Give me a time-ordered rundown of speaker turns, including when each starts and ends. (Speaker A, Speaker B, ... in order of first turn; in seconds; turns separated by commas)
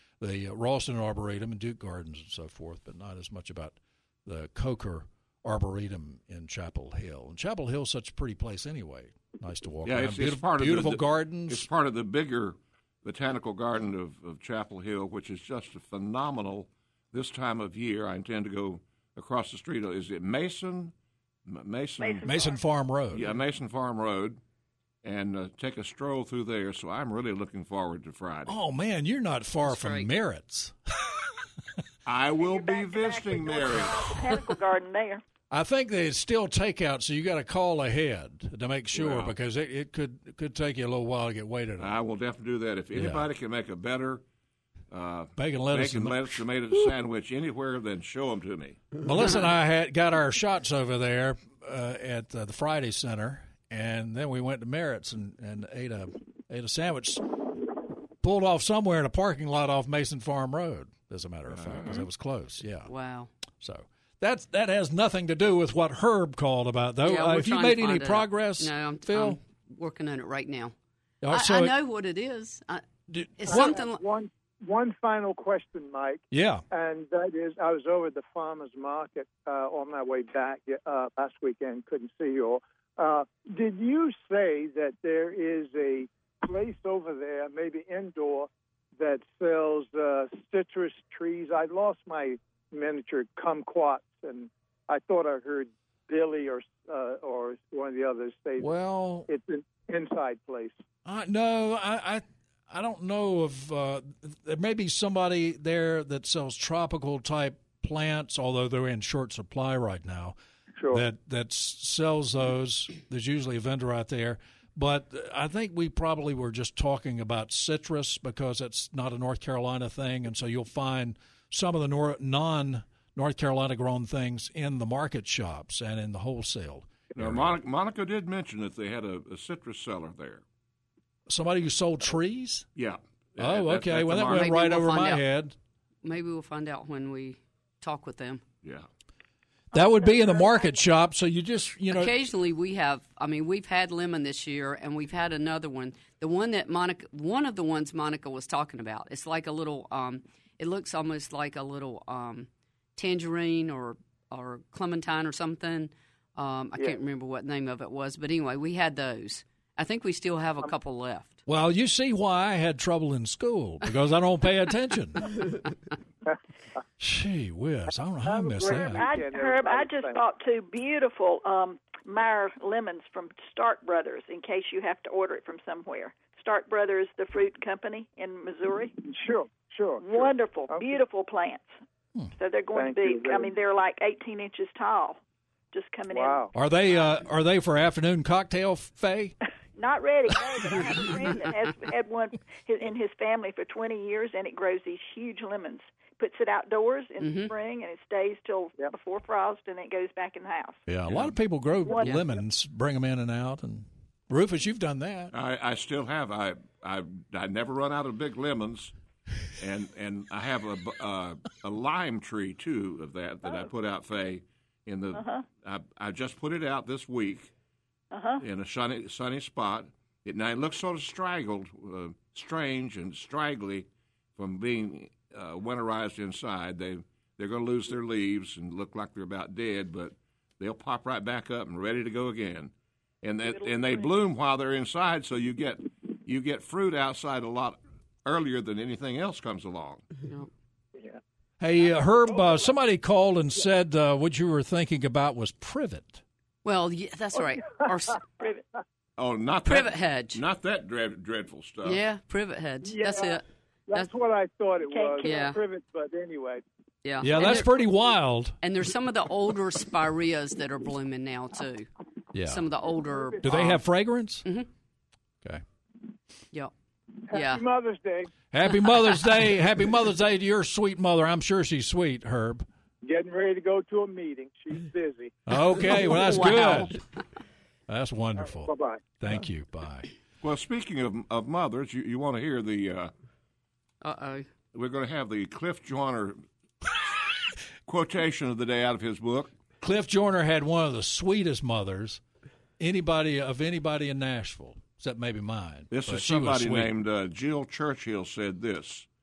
Speaker A: 0.2-11.7, Speaker B: 9.8-20.9, Speaker B: 21.4-22.5, Speaker C: 22.0-22.6, Speaker A: 22.2-23.4, Speaker B: 23.1-24.4, Speaker B: 25.0-28.5, Speaker A: 28.4-31.2, Speaker D: 29.6-30.1, Speaker B: 32.0-34.2, Speaker C: 32.4-35.2, Speaker A: 35.5-42.0, Speaker B: 38.9-39.3, Speaker B: 41.8-44.2, Speaker A: 42.9-43.3, Speaker B: 44.9-48.8, Speaker A: 45.4-46.5, Speaker A: 49.0-57.4, Speaker A: 58.2-62.9, Speaker B: 61.5-62.0, Speaker D: 62.9-63.3, Speaker A: 63.6-69.4, Speaker D: 67.0-70.7, Speaker A: 71.2-71.7, Speaker D: 71.3-72.8, Speaker A: 73.1-73.7, Speaker D: 73.4-74.0, Speaker E: 73.5-98.7, Speaker A: 76.3-76.6, Speaker A: 98.6-99.3, Speaker E: 99.3-100.7, Speaker A: 101.0-110.3, Speaker E: 110.8-111.0, Speaker A: 110.9-127.5, Speaker B: 127.1-130.4, Speaker A: 131.3-132.7, Speaker B: 132.7-134.6, Speaker A: 133.4-135.6, Speaker D: 134.3-135.2, Speaker D: 136.0-138.4, Speaker A: 139.7-142.1, Speaker C: 139.7-140.8, Speaker D: 141.9-161.4, Speaker A: 161.4-165.5, Speaker A: 167.0-169.0, Speaker E: 168.2-170.2, Speaker C: 168.6-179.0, Speaker E: 179.0-180.9, Speaker C: 180.0-181.7, Speaker C: 182.3-185.2, Speaker E: 182.7-183.5, Speaker C: 185.7-186.4, Speaker E: 186.1-186.5, Speaker A: 186.5-189.3, Speaker C: 189.8-200.8, Speaker D: 197.2-197.5, Speaker A: 200.9-205.3, Speaker C: 201.8-202.3, Speaker B: 205.3-208.9, Speaker B: 209.6-217.5, Speaker C: 215.1-215.4, Speaker C: 218.1-218.4, Speaker B: 218.4-240.0, Speaker C: 233.5-234.1, Speaker A: 241.6-246.2, Speaker D: 246.6-248.2, Speaker B: 249.2-252.0, Speaker D: 249.6-250.4, Speaker D: 251.8-254.1, Speaker E: 252.8-256.6, Speaker C: 254.8-255.5, Speaker D: 255.2-255.6, Speaker D: 257.0-257.9, Speaker A: 257.2-258.6, Speaker D: 258.6-261.9, Speaker A: 262.3-262.7, Speaker D: 262.4-263.8, Speaker E: 262.9-263.6, Speaker A: 263.4-264.4, Speaker E: 267.3-268.3, Speaker D: 267.3-267.6, Speaker A: 268.5-272.6, Speaker E: 273.0-275.4, Speaker A: 275.4-277.0, Speaker D: 275.9-276.9, Speaker A: 277.9-280.1, Speaker E: 278.4-279.0, Speaker B: 280.4-283.1, Speaker D: 284.0-284.5, Speaker B: 284.7-286.4, Speaker B: 287.9-289.5, Speaker A: 289.8-292.2, Speaker A: 292.8-296.9, Speaker B: 295.9-299.1